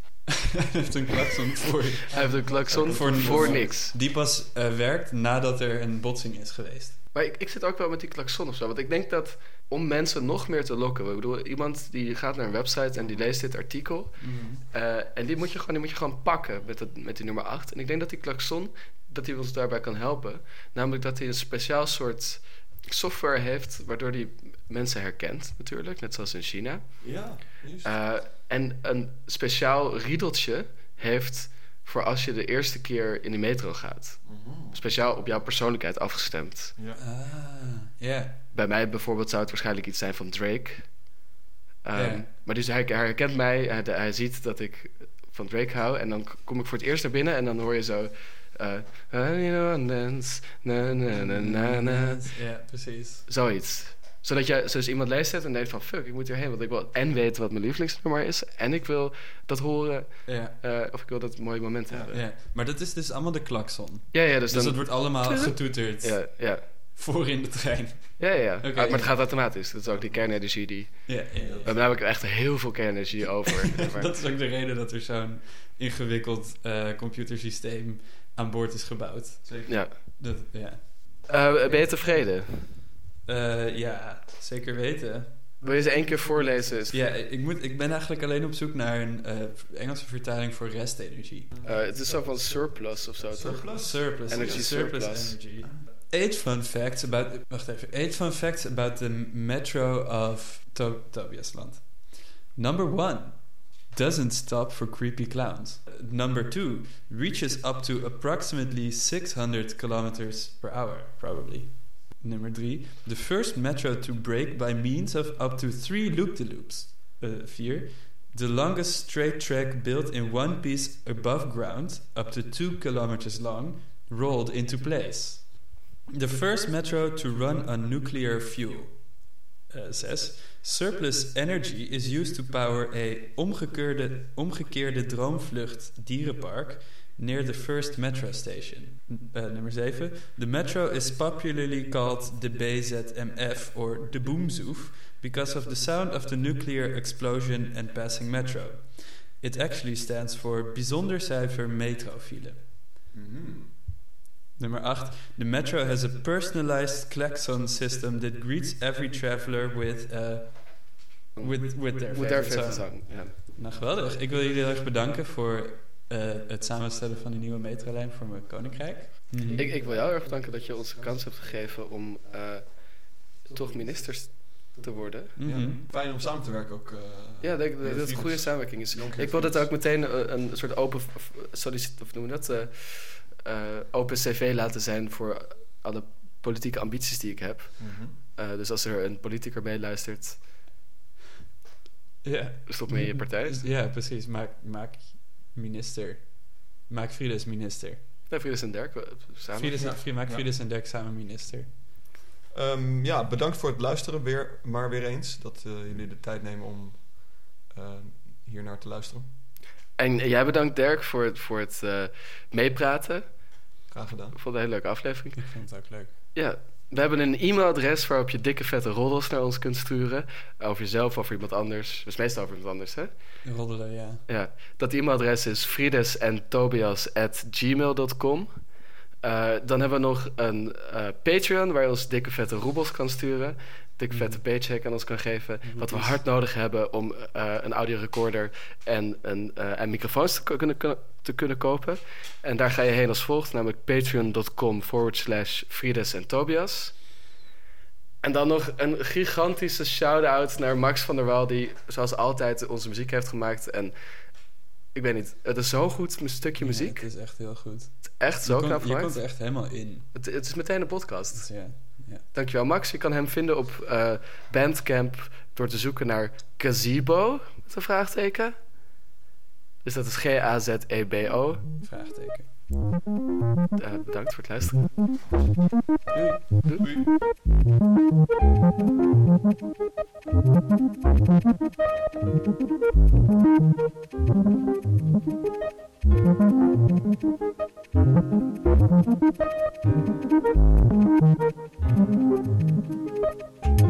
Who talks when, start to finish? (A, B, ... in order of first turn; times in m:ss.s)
0:00.7-0:07.0 A
0:02.1-0:04.0 B
0:02.2-0:03.7 C
0:07.1-0:36.8 B
0:13.0-0:13.3 C
0:14.2-0:14.6 A
0:27.0-0:27.9 C
0:34.2-0:34.9 C
0:36.9-0:38.4 A
0:38.5-0:41.2 B
0:41.8-0:52.4 B
0:41.9-0:42.3 A
0:51.1-0:53.3 A
0:53.3-1:02.2 B
1:00.2-1:00.6 A
1:01.9-1:02.2 C
1:02.1-1:09.1 A
1:04.1-1:06.7 B
1:08.2-1:14.1 B
1:09.9-1:10.4 C
1:11.0-1:11.8 A
1:11.3-1:11.8 C
1:13.8-1:22.4 A
1:19.4-1:19.8 C
1:19.7-1:20.0 B
1:21.3-1:22.7 B
1:23.2-1:25.3 A
1:25.6-1:27.1 B
1:26.9-1:31.5 A
1:31.6-1:35.4 B
1:33.3-1:35.0 C
1:33.6-2:32.7 A
2:33.1-2:33.7 C
2:34.6-2:49.6 A
2:41.4-2:43.4 B
2:49.4-2:55.3 B
2:55.4-2:55.8 A
2:55.4-2:59.7 C
2:57.4-3:10.4 B
3:07.8-3:08.1 C
3:12.2-3:18.0 A
3:12.7-3:13.6 B
3:18.3-3:20.0 B
3:19.5-3:21.7 A
3:19.8-3:20.5 C
3:22.5-3:29.3 C
3:30.0-3:33.2 B
3:33.9-3:34.4 C
3:34.3-3:35.6 B
3:35.4-3:36.1 A
3:36.3-3:43.1 B
3:43.4-3:44.2 A
3:44.3-3:48.5 B
3:49.2-4:07.0 B
3:54.1-3:54.4 A
3:55.6-3:56.2 A
4:08.2-4:14.0 B
4:14.9-4:17.0 B
4:16.6-4:20.1 A
4:18.2-4:19.4 B
4:20.1-4:28.5 B
4:21.3-4:22.2 A
4:29.8-4:31.7 B
4:31.8-4:32.5 A
4:33.8-4:35.1 B
4:36.1-4:36.6 A
4:36.8-4:37.1 C